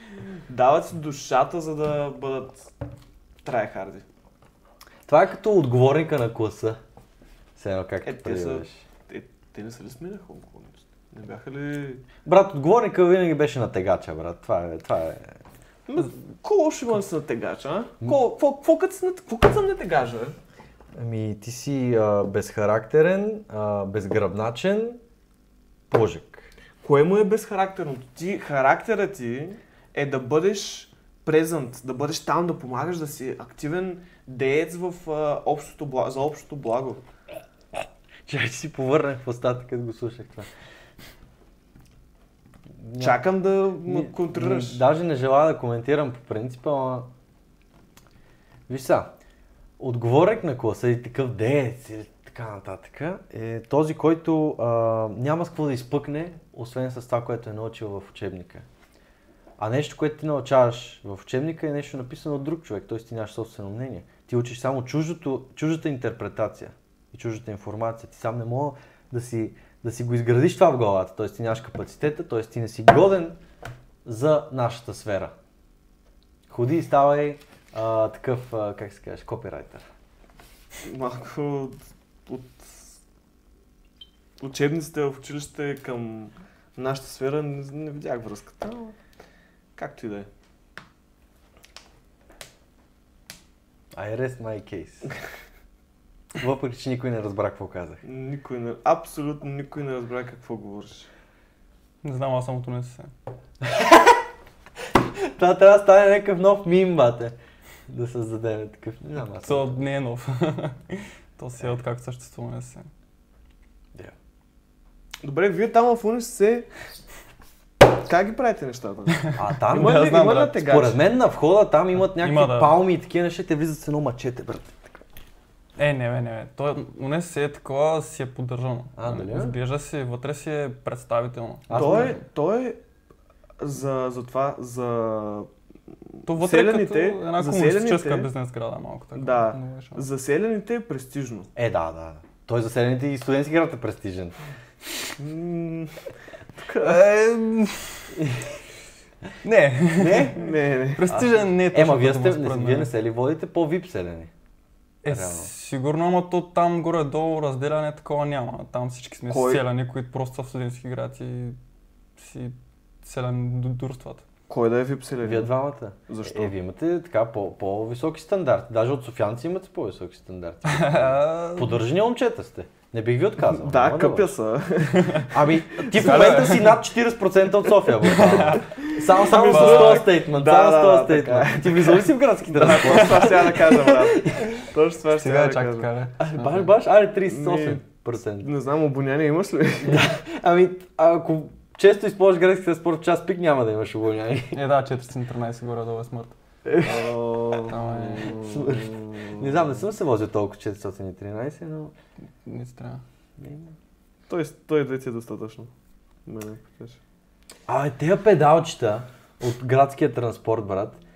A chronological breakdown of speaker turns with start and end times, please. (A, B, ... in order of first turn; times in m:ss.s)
0:00.5-0:02.7 A
0:03.4-0:04.0 A
0:05.1-0:06.8 B
0:07.6-0:08.8 B
0:08.0-0:12.0 A
0:12.2-0:15.4 B
0:15.9-0:20.4 A
0:20.9-0:25.0 B
0:25.9-0:26.5 B
0:26.8-0:37.0 A
0:38.3-0:40.5 B
0:42.8-0:43.2 B
0:43.0-0:44.8 A
0:43.8-0:47.1 B
0:48.7-0:49.1 B
0:49.8-0:58.6 B
0:59.6-1:13.4 B
1:14.0-1:15.3 B
1:16.5-1:19.8 B
1:20.8-1:22.9 A
1:24.4-1:29.0 A
1:29.8-1:30.3 A
1:33.9-1:35.1 B
1:36.4-1:38.0 B
1:38.0-1:41.1 A
1:42.0-1:43.1 C
1:43.6-1:44.2 B
1:45.2-1:47.4 B
1:47.9-1:49.8 B
1:49.4-1:52.9 C
1:55.2-1:56.7 A
1:57.8-2:01.0 A
1:59.2-2:00.6 C
1:59.3-2:05.0 B
2:02.0-2:02.7 C
2:05.8-2:12.2 C
2:09.0-2:09.6 B
2:11.7-2:12.2 B
2:11.7-2:12.8 A
2:13.6-2:15.5 A
2:16.2-2:18.3 A
2:16.3-2:20.0 C
2:19.1-2:21.5 A
2:21.5-2:24.4 B
2:25.2-2:26.0 A
2:26.6-2:27.0 A
2:26.8-2:28.2 C
2:29.4-2:32.9 C
2:30.0-2:30.4 B
2:30.3-2:31.1 A
2:31.1-2:34.3 B
2:35.0-2:41.6 C
2:35.1-2:35.5 B
2:39.3-2:39.6 A
2:42.2-2:44.2 C
2:44.5-2:45.5 A
2:45.2-2:54.3 B
2:46.1-2:46.5 A
2:50.6-2:51.8 C
2:53.4-2:56.5 A
2:55.3-3:04.6 B
2:55.9-2:56.8 C
2:58.0-2:58.7 C
2:58.8-3:05.9 A
2:59.3-3:00.1 C
3:02.8-3:03.3 C
3:05.1-3:06.7 C
3:06.2-3:08.5 B
3:07.2-3:07.8 A
3:08.4-3:10.1 A
3:09.8-3:14.6 B
3:14.5-3:16.4 C
3:16.7-3:19.7 A
3:17.7-3:18.4 C
3:18.1-3:21.9 B
3:22.4-3:23.0 C
3:23.4-3:23.7 B
3:24.3-3:25.7 A
3:26.2-3:27.0 A
3:27.7-3:31.0 B